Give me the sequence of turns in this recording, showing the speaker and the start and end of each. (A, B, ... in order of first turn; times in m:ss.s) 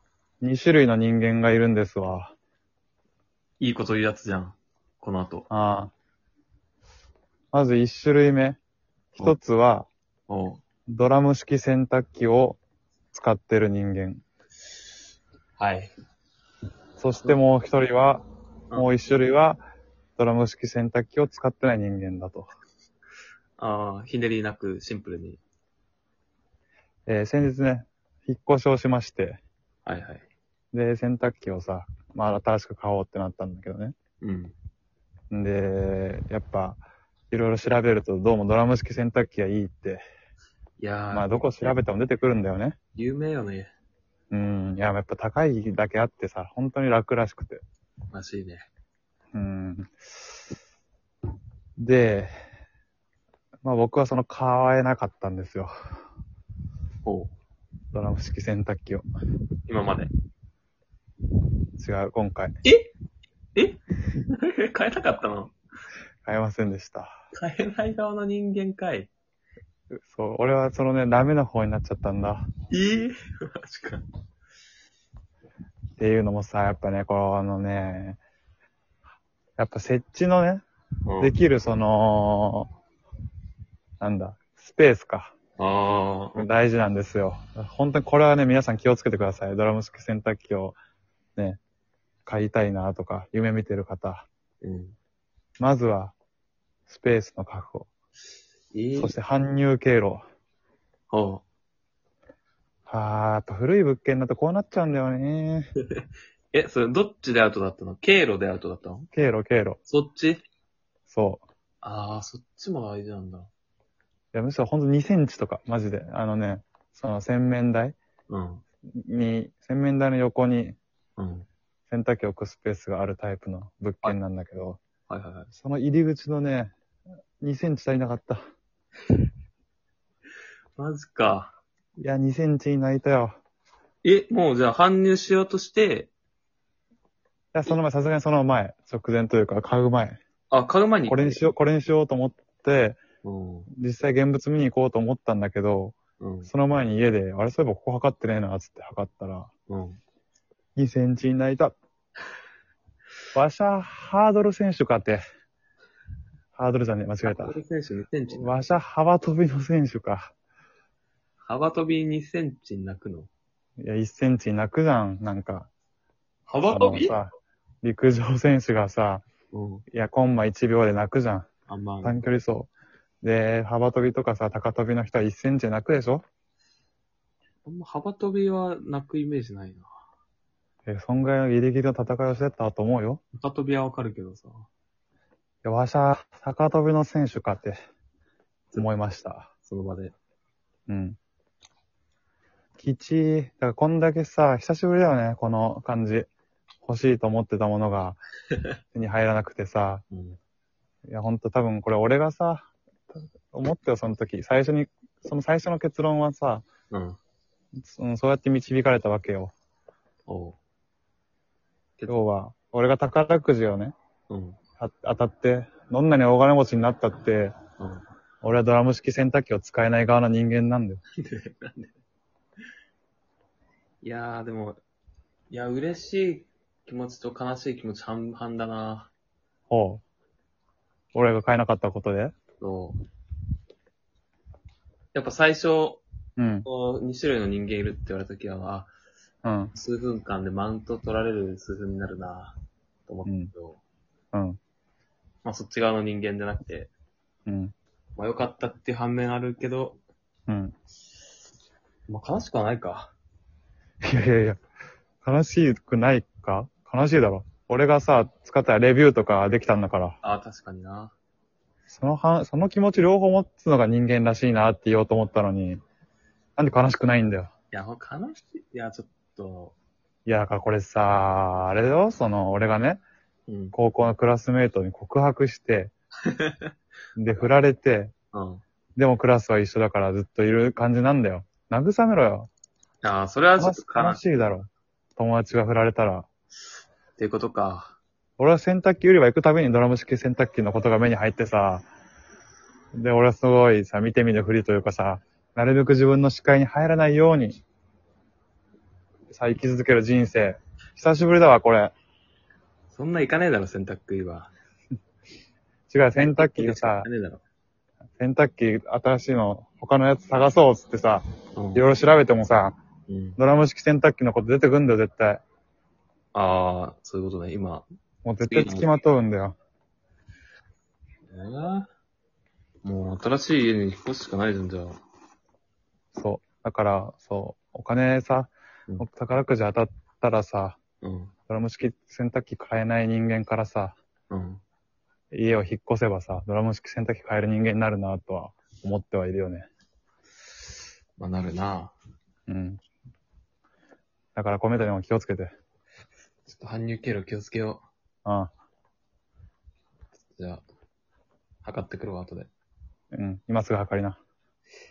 0:00.4-0:02.4 A
0:03.6-0:05.5 B
0:05.5-0:05.9 A
0:07.5-0:08.6 A
0:09.2-0:09.9 A
0:10.3-0:10.6 B
0:10.9-0:12.6 A
0:13.1-0:14.2 A
0:15.6-0:15.9 B
0:17.0-0:18.2 A
0:18.8-0:19.6 A
0:20.2-0:22.5 A
0:23.6-0:25.4 B
0:27.1-0:29.4 A
0:29.9-0:30.3 B
0:30.7-0:34.0 A
0:34.2-0:34.6 B
0:35.3-0:40.0 A
0:40.8-0:41.8 B
0:41.1-0:42.8 A
0:43.0-0:43.7 B
0:44.3-0:47.6 A
0:48.1-0:48.7 B
0:49.3-0:49.9 A
0:51.8-0:52.3 A
0:53.6-0:55.7 A
0:57.0-0:57.3 B
0:57.9-0:59.0 A
0:59.7-1:00.1 B
1:01.8-1:02.5 A
1:03.6-1:05.6 B
1:06.2-1:07.1 A
1:07.3-1:09.1 B
1:10.0-1:12.5 A
1:12.7-1:14.0 B
1:16.0-1:18.2 A
1:19.6-1:20.7 A
1:21.1-1:21.4 B
1:21.2-1:22.7 A
1:24.0-1:25.3 A
1:25.6-1:26.5 B
1:26.4-1:30.8 A
1:32.3-1:34.3 A
1:34.6-1:35.0 B
1:35.6-1:36.2 A
1:36.9-1:37.9 A
1:38.7-1:39.2 B
1:39.0-1:40.2 A
1:41.1-1:41.4 B
1:42.9-1:45.7 A
1:45.9-1:49.1 B
1:49.1-1:49.8 A
1:49.9-1:50.4 B
1:51.1-1:51.4 A
1:51.8-1:53.5 B
1:54.3-1:58.0 A
1:58.3-1:58.6 B
1:58.9-2:00.8 A
2:01.2-2:01.5 B
2:01.9-2:04.8 A
2:05.1-2:05.5 B
2:05.5-2:06.7 A
2:07.4-2:08.4 A
2:10.8-2:11.6 B
2:12.0-2:13.4 A
2:14.0-2:16.1 B
2:17.5-2:20.2 A
2:20.5-2:21.4 B
2:21.1-2:23.0 A
2:23.2-2:23.7 B
2:23.8-2:29.5 A
2:26.2-2:26.5 B
2:29.7-2:30.0 B
2:30.8-2:31.8 A
2:33.3-2:35.2 A
2:36.6-2:37.6 A
2:37.2-2:38.6 B
2:38.3-2:40.3 A
2:41.4-2:43.3 B
2:43.8-2:45.7 A
2:46.5-2:47.2 B
2:46.7-2:49.2 A
2:49.5-2:49.8 B
2:49.9-2:51.5 A
2:51.7-2:52.2 B
2:52.0-2:52.7 A
2:53.2-2:56.2 A
2:57.6-2:59.9 B
3:00.9-3:03.2 A
3:03.4-3:04.7 B
3:05.6-3:07.8 A
3:08.8-3:09.5 A
3:09.6-3:10.1 B
3:10.9-3:11.2 A
3:12.8-3:16.3 A
3:16.8-3:18.2 A
3:18.9-3:20.0 A
3:20.1-3:20.4 B
3:21.1-3:26.7 A
3:26.9-3:27.2 B
3:27.8-3:29.5 A
3:30.3-3:30.6 B
3:32.1-3:34.0 A
3:34.3-3:34.6 B
3:34.8-3:37.6 A
3:37.8-3:38.0 B
3:38.4-3:41.0 A
3:41.2-3:41.9 B
3:44.0-3:44.8 B
3:45.5-3:49.1 B
3:49.7-3:50.0 A
3:51.1-3:52.4 A
3:52.6-3:53.0 B
3:55.1-3:56.0 B
3:56.4-3:56.7 A
3:56.6-3:58.9 B
3:59.4-3:59.7 A
3:59.8-4:03.8 B
4:03.2-4:03.5 A
4:04.3-4:04.6 A
4:05.4-4:06.9 B
4:07.5-4:07.7 A
4:08.2-4:10.0 B
4:10.5-4:10.8 A
4:12.1-4:13.1 B
4:14.0-4:14.6 A
4:15.2-4:20.2 A
4:20.2-4:21.1 B
4:21.9-4:25.8 A
4:26.6-4:27.5 A
4:27.7-4:29.8 B
4:30.3-4:33.0 A
4:33.5-4:33.8 B
4:33.7-4:35.9 A
4:36.2-4:36.7 B
4:37.2-4:38.1 A
4:38.3-4:38.6 B
4:39.0-4:42.5 A
4:43.0-4:44.3 B
4:43.6-4:46.3 A
4:47.2-4:48.0 B
4:48.4-4:51.9 A
4:52.9-4:57.6 A
4:59.3-5:01.9 A
5:02.9-5:04.5 B
5:05.9-5:07.1 A
5:06.3-5:07.4 B
5:08.2-5:11.2 A
5:11.6-5:11.9 B
5:11.8-5:12.8 A
5:13.1-5:13.4 B
5:13.4-5:15.4 A
5:16.3-5:17.9 B
5:18.2-5:19.6 A
5:18.4-5:18.9 B
5:21.3-5:21.9 B
5:22.8-5:25.0 B
5:26.2-5:30.8 A
5:31.0-5:31.3 B
5:31.5-5:34.0 A
5:34.3-5:34.6 B
5:35.3-5:39.7 A
5:41.2-5:41.9 B
5:42.5-5:42.8 A
5:44.4-5:45.5 A
5:46.5-5:47.8 B
5:48.2-5:48.5 A
5:50.3-5:50.7 B
5:51.6-5:52.5 B
5:53.1-5:54.2 A